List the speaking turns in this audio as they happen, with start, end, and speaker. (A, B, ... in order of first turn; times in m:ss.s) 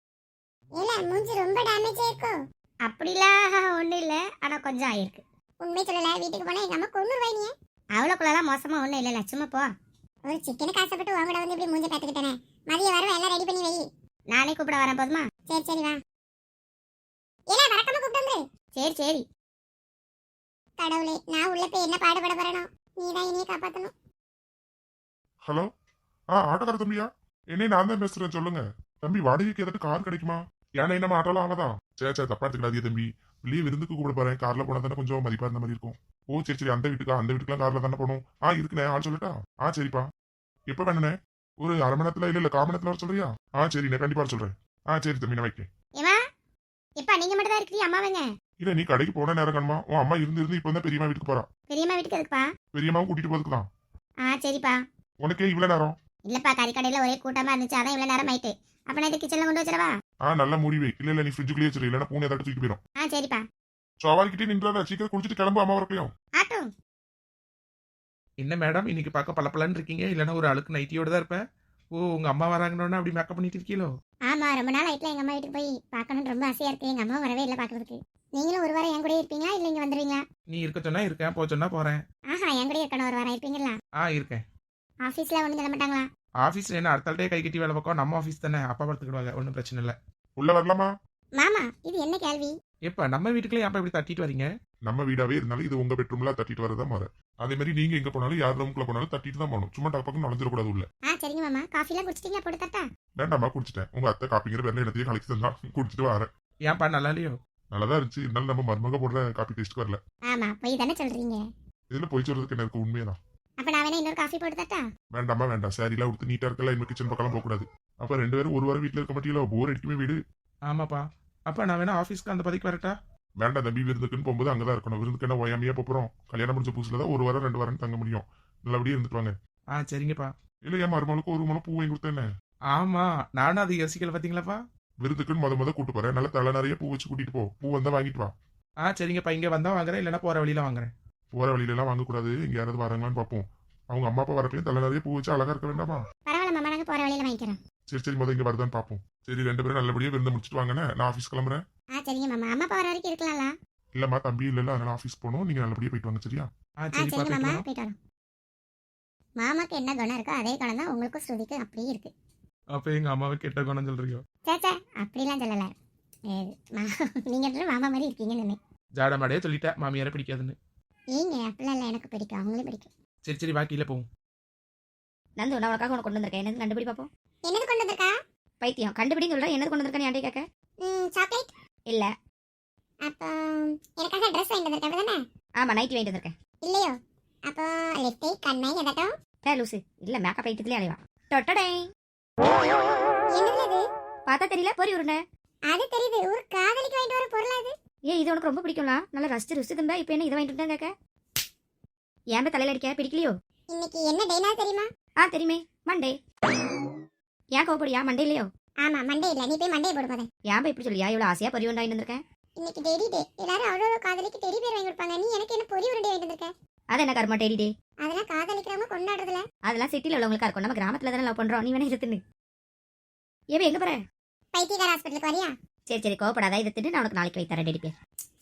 0:00.8-0:02.3 A
0:02.8-0:05.2 B
0:05.6-0:07.5 A
0:08.0-0:09.7 B
0:10.3-0:13.8 A
0:14.3-0:15.3 B
0:15.5-0:16.0 A
0:17.5-0:18.4 A
0:18.8-0:19.2 B
0:20.8-0:23.9 A
0:26.3-0:40.1 C
0:40.7-0:45.7 C
0:47.0-0:48.2 B
0:48.6-0:51.5 C
0:51.7-0:52.4 B
0:52.7-0:53.6 C
0:54.2-0:54.8 B
0:55.2-0:55.9 C
0:56.2-0:59.9 B
1:00.2-1:02.8 C
1:03.0-1:03.4 B
1:04.0-1:06.1 C
1:06.4-1:06.7 B
1:08.4-1:11.4 D
1:11.9-1:13.9 D
1:14.3-1:20.2 B
1:20.5-1:22.0 D
1:22.3-1:23.8 B
1:24.0-1:24.4 D
1:25.0-1:26.1 B
1:26.4-1:30.0 D
1:30.4-1:30.9 C
1:31.4-1:32.5 B
1:32.9-1:34.5 D
1:34.9-1:40.9 C
1:41.1-1:42.8 B
1:43.2-1:46.3 C
1:46.6-1:47.4 D
1:47.7-1:50.0 C
1:50.3-1:51.4 B
1:51.9-1:53.2 C
1:53.6-1:54.8 B
1:55.1-2:00.2 C
2:00.7-2:03.0 D
2:03.4-2:09.3 C
2:09.7-2:10.3 D
2:10.7-2:12.3 C
2:12.7-2:14.6 D
2:15.0-2:18.3 C
2:18.8-2:20.9 D
2:21.3-2:26.0 C
2:26.3-2:27.6 B
2:27.9-2:31.6 C
2:32.0-2:33.5 B
2:34.0-2:36.5 C
2:36.8-2:37.6 D
2:37.0-2:38.0 B
2:39.4-2:42.1 B
2:42.7-2:44.2 D
2:44.4-2:45.7 B
2:46.3-2:48.6 B
2:49.0-2:50.6 D
2:51.1-2:52.9 B
2:53.2-2:54.1 D
2:55.4-2:57.1 E
2:57.5-2:58.1 A
2:58.6-3:00.4 E
3:00.8-3:01.4 A
3:03.1-3:05.2 A
3:05.6-3:06.3 E
3:06.6-3:06.9 A
3:07.5-3:09.1 A
3:09.4-3:11.9 E
3:13.3-3:13.8 A
3:14.3-3:15.2 E
3:15.7-3:17.7 A
3:18.1-3:20.9 E
3:22.3-3:23.3 E
3:23.7-3:24.9 A
3:25.2-3:26.2 E
3:27.5-3:28.5 E
3:28.8-3:30.2 A
3:30.5-3:32.2 E
3:32.6-3:36.5 A
3:36.9-3:37.7 E
3:38.0-3:39.4 A
3:39.6-3:42.2 E
3:43.5-3:44.0 E
3:44.5-3:45.5 A
3:45.9-3:47.9 E